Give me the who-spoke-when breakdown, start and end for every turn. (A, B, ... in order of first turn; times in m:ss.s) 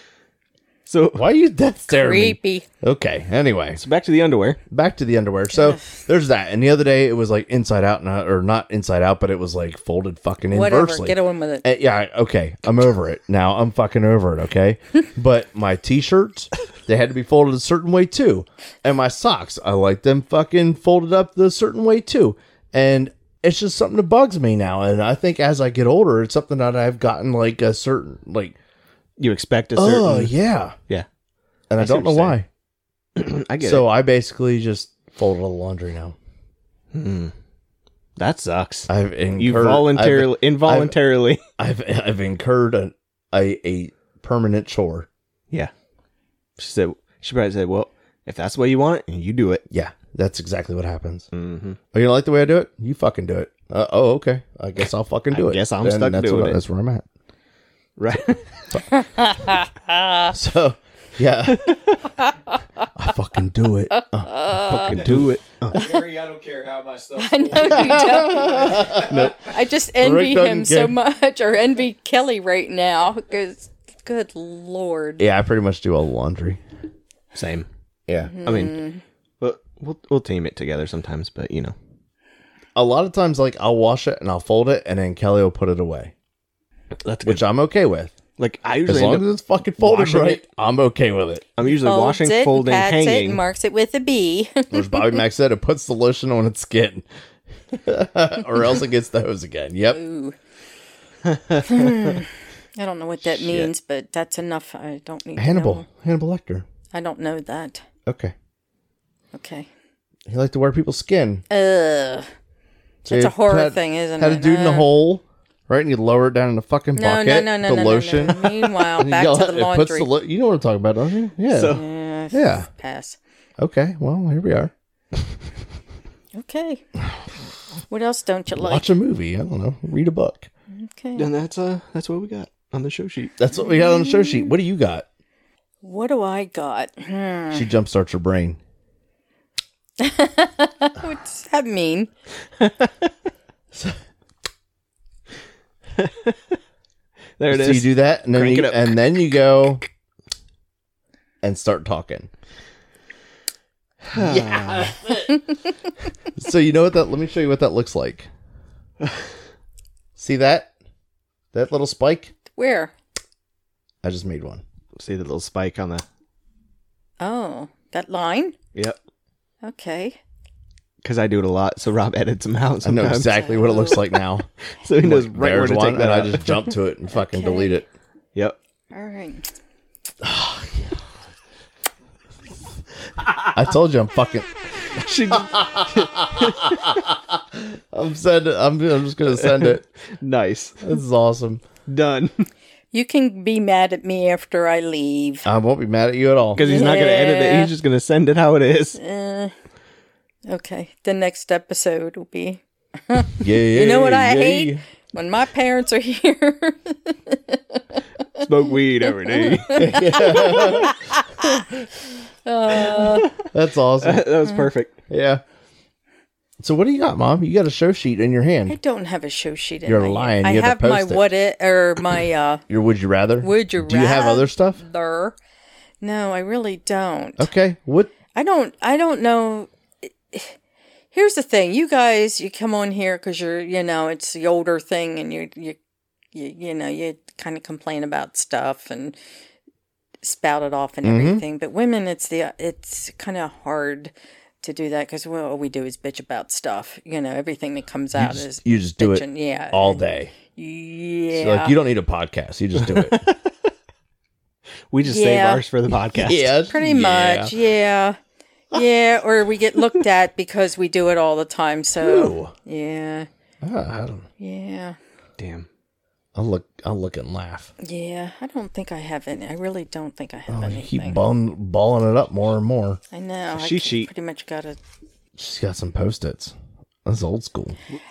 0:00.9-0:01.3 A
0:01.1-0:03.8 B
0:01.9-0:02.7 C
0:03.8-0:04.6 A
0:04.7-0:28.6 B
0:05.5-0:05.9 C
0:10.5-0:11.6 C
0:29.2-0:30.3 A
0:29.8-0:30.8 B
0:31.7-0:32.5 B
0:31.8-0:32.4 A
0:33.2-0:33.8 A
0:33.6-0:36.2 B
0:36.9-0:37.3 A
0:38.2-0:41.4 A
0:38.9-0:41.0 B
0:41.6-0:45.1 B
0:46.6-0:49.6 A
0:49.7-0:51.3 B
0:51.3-0:51.8 A
0:51.9-0:57.1 B
0:55.3-0:56.6 A
0:58.0-0:58.5 A
0:58.9-1:00.3 C
1:00.3-1:01.8 B
1:01.6-1:02.0 A
1:02.2-1:02.9 C
1:02.9-1:04.4 B
1:03.9-1:05.0 C
1:04.6-1:05.8 A
1:04.9-1:05.3 B
1:05.7-1:09.4 D
1:05.7-1:06.0 C
1:07.2-1:15.2 C
1:07.6-1:09.3 B
1:09.1-1:09.4 A
1:10.0-1:11.0 B
1:15.2-1:16.6 B
1:17.3-1:17.7 A
1:18.1-1:18.4 B
1:18.2-1:19.0 C
1:18.4-1:18.8 A
1:19.4-1:21.7 A
1:22.7-1:26.1 B
1:27.0-1:27.4 A
1:27.2-1:28.2 B
1:28.4-1:30.4 A
1:28.9-1:31.5 B
1:31.6-1:33.4 A
1:31.8-1:35.2 C
1:34.7-1:37.0 B
1:37.7-1:40.0 B
1:39.9-1:40.4 C
1:41.3-1:42.1 A
1:41.6-1:45.9 C
1:43.3-1:43.7 A
1:45.4-1:46.6 B
1:46.9-1:47.8 C
1:48.1-1:48.3 B
1:49.3-1:49.7 C
1:50.3-1:51.4 B
1:51.5-1:52.3 C
1:53.0-1:54.9 C
1:53.1-2:01.8 B
1:56.9-2:00.1 C
2:01.5-2:01.8 A
2:01.7-2:03.2 C
2:02.3-2:02.7 B
2:03.6-2:04.7 B
2:06.4-2:06.8 C
2:07.9-2:08.8 C
2:08.6-2:10.5 B
2:10.7-2:11.3 C
2:11.2-2:13.3 A
2:13.4-2:15.1 B
2:13.7-2:14.4 C
2:15.8-2:17.6 C
2:17.5-2:18.6 B
2:20.0-2:22.1 C
2:22.6-2:23.1 A
2:23.7-2:24.0 B
2:26.0-2:26.4 A
2:27.4-2:29.0 A
2:27.5-2:29.8 B
2:31.4-2:32.3 B
2:34.1-2:34.9 A
2:34.1-2:35.4 B
2:36.4-2:38.3 B
2:40.2-2:40.7 B
2:41.5-2:42.3 B
2:42.6-2:42.9 C
2:44.0-2:44.6 B
2:45.0-2:46.0 A
2:47.2-2:48.6 C
2:49.6-2:50.2 C
2:51.0-2:53.4 A
2:52.8-2:54.5 B
2:53.3-2:54.0 C
2:54.8-2:56.7 A
2:55.0-2:57.9 B
2:57.1-2:57.8 C
2:58.9-2:59.4 C
3:00.2-3:01.0 B
3:03.5-3:04.5 B
3:04.9-3:07.0 A
3:05.3-3:09.8 B
3:09.4-3:10.9 A
3:10.8-3:11.6 B
3:11.9-3:12.5 A
3:12.9-3:15.5 C
3:15.4-3:16.7 B
3:16.6-3:19.0 A
3:16.6-3:17.7 C
3:19.0-3:19.5 C
3:20.5-3:28.4 C
3:23.4-3:24.8 B
3:28.4-3:30.0 A
3:29.1-3:31.7 C
3:29.7-3:30.9 B
3:32.4-3:33.3 C
3:32.9-3:33.3 A
3:33.4-3:34.3 B
3:34.0-3:35.0 A
3:35.1-3:35.4 B
3:36.6-3:38.8 B
3:38.7-3:42.6 C
3:39.9-3:41.2 B
3:42.7-3:44.8 B
3:43.4-3:45.4 C
3:46.0-3:47.5 C
3:47.4-3:48.1 B
3:48.4-3:50.6 C
3:51.1-3:55.8 C
3:56.3-3:59.2 C
4:00.2-4:11.7 C
4:01.0-4:01.4 B
4:08.1-4:10.3 B
4:11.3-4:13.2 B
4:12.8-4:13.5 A
4:14.9-4:16.4 A
4:15.0-4:15.6 C
4:16.2-4:17.6 B
4:16.6-4:18.2 C
4:18.7-4:23.3 C
4:22.0-4:22.5 B
4:23.6-4:24.2 B
4:24.4-4:25.0 C
4:25.4-4:25.7 A
4:26.4-4:27.7 B
4:27.8-4:31.2 C
4:30.5-4:33.0 B
4:33.1-4:34.8 C
4:33.6-4:34.1 A
4:35.4-4:36.5 B
4:37.0-4:37.8 B